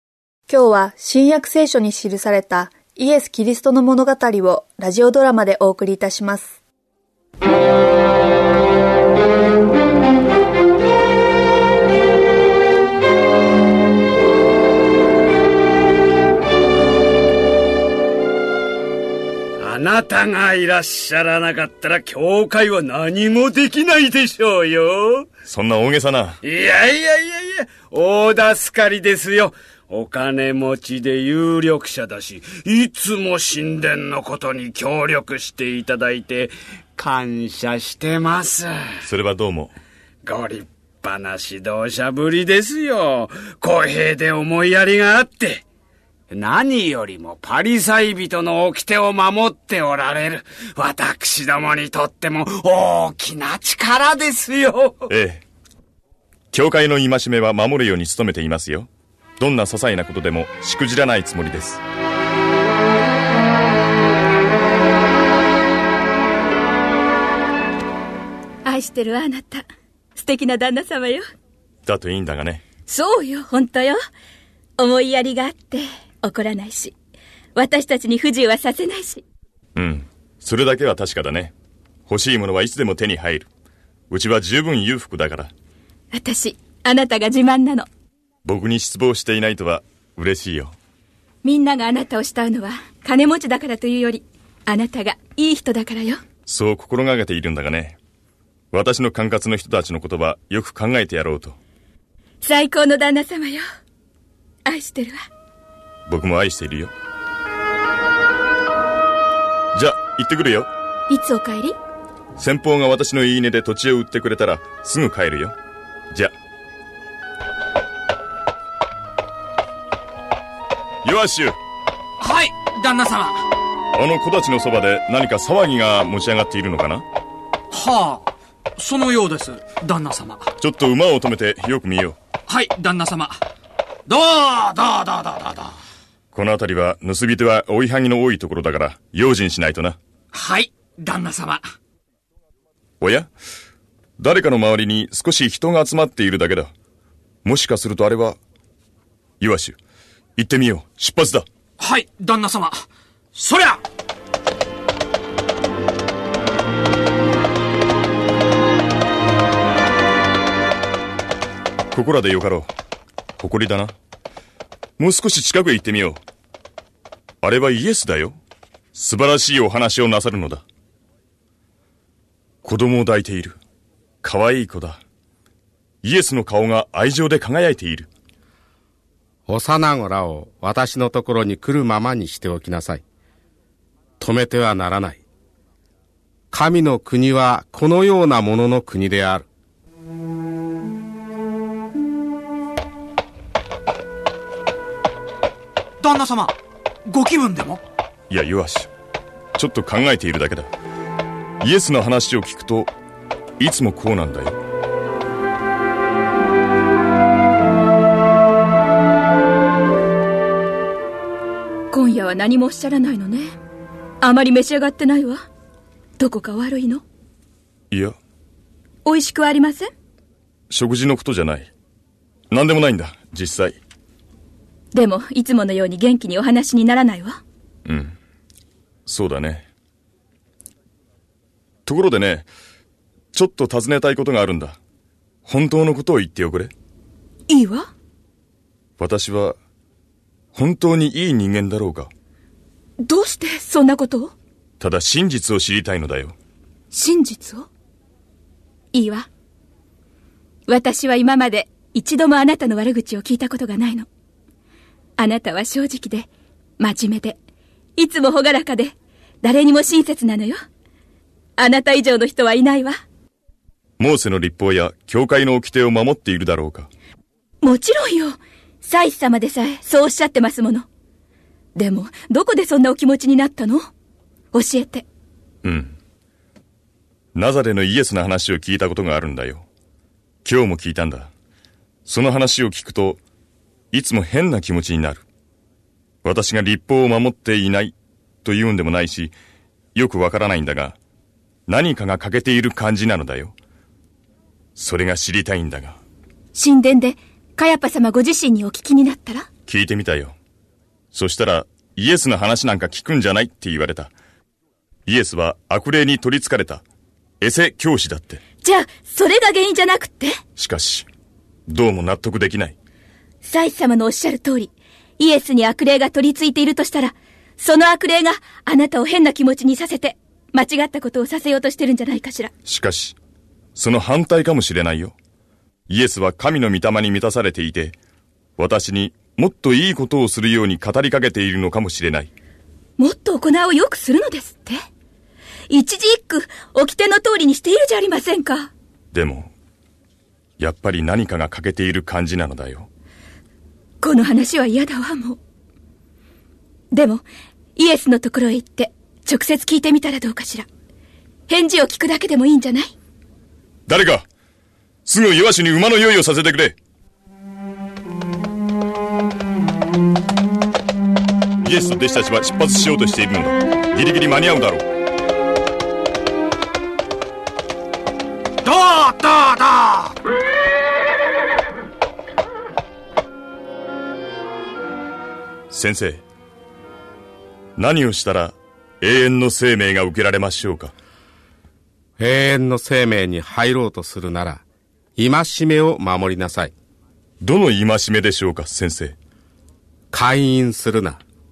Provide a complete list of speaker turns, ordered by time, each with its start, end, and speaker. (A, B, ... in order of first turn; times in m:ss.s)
0:00.5-0:06.6 A
0:19.6-0:25.3 B
0:25.5-0:26.4 C
0:26.4-0:39.0 B
0:39.0-0:39.7 C
0:40.2-0:45.6 B
0:46.3-0:55.1 B
0:55.1-0:55.4 C
0:56.5-0:58.9 C
0:59.4-1:01.8 C
1:08.6-1:09.6 D
1:10.2-1:11.3 D
1:11.8-1:12.6 C
1:12.8-1:14.0 D
1:14.8-1:16.9 D
1:17.6-1:19.2 D
1:19.8-1:21.5 C
1:22.1-1:23.5 C
1:24.1-1:25.5 C
1:26.1-1:27.8 D
1:28.4-1:30.8 C
1:31.4-1:36.2 D
1:36.5-1:38.0 C
1:38.7-1:41.6 C
1:42.4-1:43.6 D
1:44.6-1:45.2 D
1:46.1-1:46.9 C
1:49.7-1:50.7 C
1:51.1-1:51.8 D
1:52.4-1:55.6 C
2:01.0-2:01.6 C
2:02.2-2:03.4 E
2:03.9-2:07.0 C
2:07.7-2:10.5 E
2:10.6-2:12.2 C
2:12.5-2:13.4 E
2:14.1-2:15.7 E
2:16.3-2:20.0 C
2:20.3-2:21.6 E
2:23.0-2:23.3 C
2:24.2-2:26.7 C
2:27.4-2:28.4 C
2:29.4-2:29.8 C
2:30.4-2:31.5 C
2:31.8-2:33.8 E
2:41.9-2:42.7 C
2:43.4-2:43.9 C
2:45.0-2:46.2 C
2:47.4-2:48.4 C
2:48.9-2:50.6 C
2:52.6-2:53.6 C
2:54.2-2:55.0 C
2:56.0-2:58.1 C
2:59.5-3:03.0 F
3:04.2-3:05.2 F
3:06.5-3:09.4 F
3:16.0-3:16.5 E
3:17.0-3:17.8 E
3:18.3-3:18.9 C
3:19.6-3:20.7 C
3:21.6-3:22.9 C
3:23.6-3:24.6 C
3:31.9-3:33.5 D
3:34.2-3:35.4 D
3:36.2-3:37.0 D
3:37.9-3:38.2 C
3:39.0-3:39.9 D
3:40.7-3:41.7 C
3:42.5-3:43.8 C
3:44.9-3:47.4 D
3:47.8-3:48.1 C
3:49.0-3:49.7 C
3:51.8-3:52.5 C
3:53.3-3:54.8 C
3:55.4-3:56.7 C
3:57.5-3:57.9 D
3:59.0-3:59.6 C
4:00.5-4:02.1 C
4:03.0-4:04.3 D
4:04.8-4:06.4 C
4:06.9-4:07.7 D
4:08.9-4:09.3 D
4:10.7-4:14.1 D
4:15.2-4:16.3 D
4:16.8-4:17.4 D
4:18.0-4:20.6 D
4:21.6-4:23.0 D
4:24.0-4:26.9 C
4:27.6-4:30.8 D
4:31.8-4:33.8 D
4:34.5-4:35.0 D
4:35.6-4:35.9 C
4:37.3-4:39.7 C
4:40.4-4:41.3 C
4:42.0-4:43.2 C
4:43.9-4:45.2 C
4:46.2-4:49.3 C
4:49.9-4:51.0 C
4:51.7-4:53.6 C
4:54.8-4:56.0 C
4:56.5-4:59.5 D
4:59.7-5:00.4 C
5:01.1-5:04.1 C
5:05.0-5:06.8 C
5:07.4-5:08.4 C
5:08.6-5:10.4 D
5:10.6-5:11.1 C
5:11.7-5:12.8 C
5:13.4-5:22.5 D
5:22.6-5:23.2 C
5:23.7-5:25.2 C
5:25.9-5:28.0 C
5:28.6-5:32.3 C
5:33.0-5:34.8 D
5:35.7-5:38.7 D
5:39.1-5:39.5 C
5:40.6-5:42.9 C
5:44.0-5:45.4 D
5:46.9-5:47.2 D
5:47.8-5:50.7 D
5:51.5-5:52.9 D
5:53.9-5:54.2 C
5:55.0-5:56.8 C
6:01.6-6:04.8 C
6:08.6-6:10.1 E
6:15.7-6:16.2 C
6:17.8-6:20.9 C
6:22.2-6:24.6 F
6:25.2-6:26.7 F
6:27.4-6:29.2 C
6:30.1-6:31.2 F